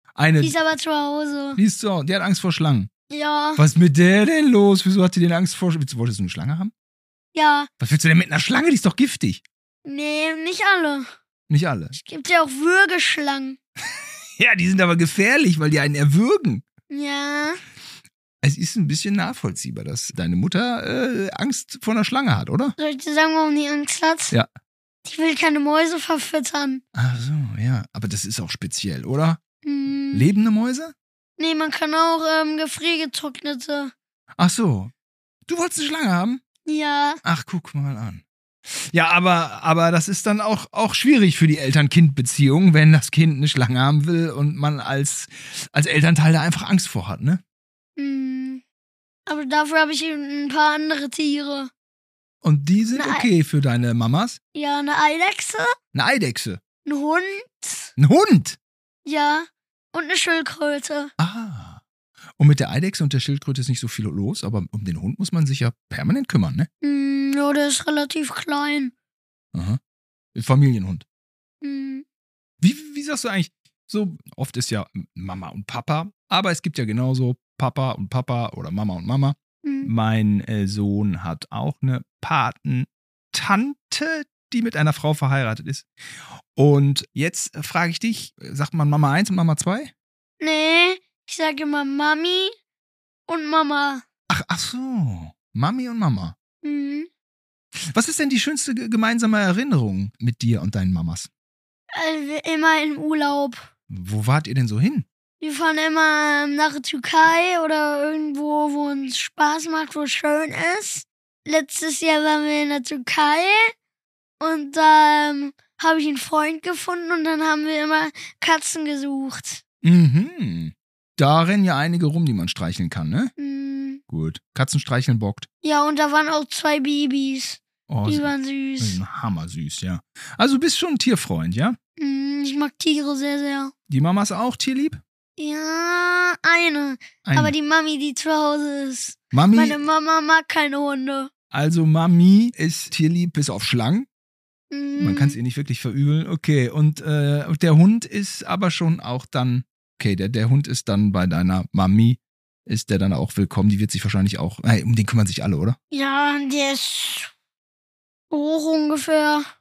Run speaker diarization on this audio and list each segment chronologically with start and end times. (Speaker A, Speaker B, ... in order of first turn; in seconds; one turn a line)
Speaker A: 0.1-0.6
Speaker B: 0.4-1.6
Speaker A: 1.6-2.9
Speaker B: 3.1-3.6
Speaker A: 3.6-6.7
Speaker B: 7.3-7.7
Speaker A: 7.8-9.4
Speaker B: 9.8-11.1
Speaker A: 11.5-11.9
Speaker B: 11.9-13.6
Speaker A: 14.4-16.6
Speaker B: 16.9-17.6
Speaker A: 18.4-22.8
Speaker B: 22.8-24.3
Speaker B: 25.1-26.8
Speaker A: 26.9-29.4
Speaker B: 29.6-30.3
Speaker A: 30.1-30.9
Speaker B: 31.4-33.9
Speaker A: 34.4-34.9
Speaker A: 35.5-36.4
Speaker B: 36.6-37.2
Speaker A: 37.2-47.4
Speaker B: 48.0-48.6
Speaker B: 49.2-51.7
Speaker A: 52.4-54.4
Speaker B: 52.9-53.3
Speaker B: 54.5-55.7
Speaker A: 55.9-56.6
Speaker B: 56.8-57.9
Speaker A: 58.0-58.6
Speaker B: 59.0-61.1
Speaker A: 61.2-61.8
Speaker A: 62.4-66.7
Speaker B: 66.8-68.9
Speaker A: 69.5-69.8
Speaker A: 70.3-71.0
Speaker B: 71.6-72.0
Speaker A: 72.6-85.9
Speaker B: 79.6-79.9
Speaker A: 86.5-89.9
Speaker B: 90.4-92.6
Speaker B: 93.3-94.0
Speaker A: 94.3-96.3
Speaker B: 96.6-97.1
Speaker A: 97.9-101.3
Speaker B: 101.9-103.7
Speaker A: 103.9-105.1
Speaker B: 105.4-113.7
Speaker B: 114.4-119.6
Speaker A: 119.8-123.3
Speaker B: 123.4-124.0
Speaker A: 124.1-125.5
Speaker B: 125.6-129.0
Speaker A: 127.9-131.8
Speaker B: 132.0-133.7
Speaker A: 133.9-135.0
Speaker B: 135.4-141.3
Speaker A: 137.2-137.6
Speaker A: 139.3-139.8
Speaker A: 141.5-144.1
Speaker B: 144.7-145.4
Speaker A: 145.0-155.8
Speaker B: 155.9-157.3
Speaker B: 158.3-159.5